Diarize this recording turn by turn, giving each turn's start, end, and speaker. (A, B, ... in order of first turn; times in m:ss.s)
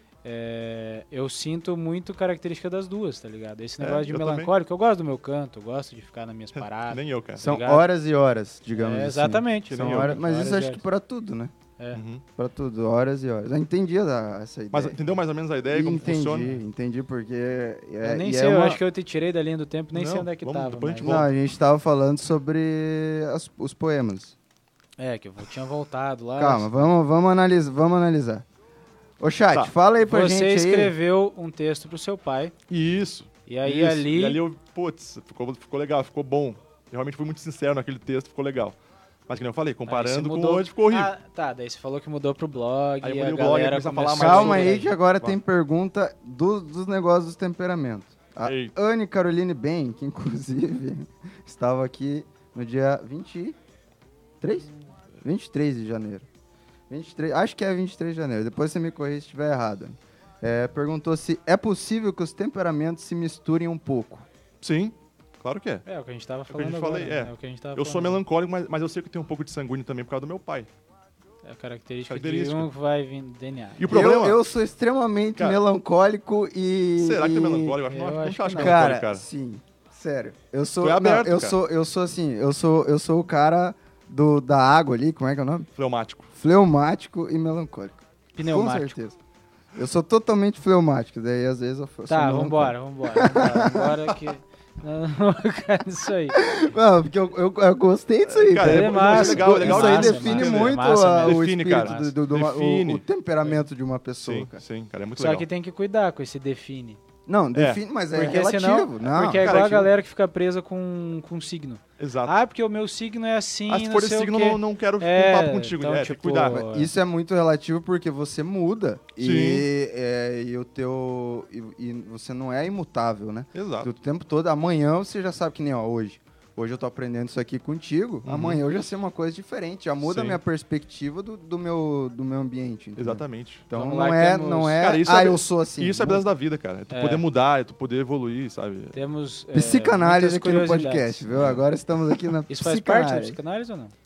0:00.2-0:07.8 A
0:03.8-0:04.5 B
0:06.5-0:07.4 B
0:07.4-0:11.5 C
0:08.8-0:10.8 A
0:09.7-0:10.2 B
0:11.9-0:12.2 B
0:12.4-0:15.0 C
0:14.7-0:16.6 B
0:15.7-0:18.8 C
0:18.0-0:21.2 A
0:19.9-0:21.3 B
0:21.0-0:24.3 C
0:25.0-0:26.7 A
0:26.4-0:28.4 C
0:29.2-0:30.9 C
0:30.0-0:32.5 A
0:32.7-0:38.8 B
0:33.4-0:34.4 A
0:39.3-0:41.1 B
0:39.9-0:45.0 A
0:43.0-0:45.3 B
0:44.2-0:53.6 C
0:48.4-0:48.7 B
0:54.4-0:54.7 C
0:55.2-0:56.3 C
0:56.9-1:04.2 C
1:04.6-1:05.8 B
1:05.8-1:08.2 A
1:06.5-1:10.7 B
1:11.4-1:13.8 A
1:12.1-1:12.7 B
1:13.8-1:14.4 B
1:13.9-1:17.8 C
1:17.0-1:19.2 B
1:17.9-1:18.8 A
1:18.5-1:25.7 C
1:20.8-1:21.6 B
1:25.8-1:26.3 B
1:26.3-1:29.2 C
1:28.4-1:29.0 A
1:29.7-1:34.1 C
1:32.1-1:36.4 A
1:36.3-1:44.6 C
1:38.3-1:43.0 B
1:38.6-1:42.1 A
1:44.2-1:45.5 B
1:45.2-1:47.0 A
1:47.3-1:49.6 C
1:47.5-1:47.8 B
1:48.1-1:56.9 A
1:49.3-1:49.9 B
1:52.0-1:52.3 B
1:53.7-1:56.6 B
1:56.5-2:16.2 C
1:59.2-1:59.7 B
2:03.5-2:03.9 B
2:08.2-2:08.6 B
2:10.0-2:10.4 B
2:13.0-2:13.7 B
2:13.7-2:14.8 A
2:14.7-2:19.0 B
2:16.9-2:17.2 A
2:18.9-2:21.3 A
2:19.5-2:23.4 C
2:21.3-2:21.6 B
2:22.5-2:23.9 A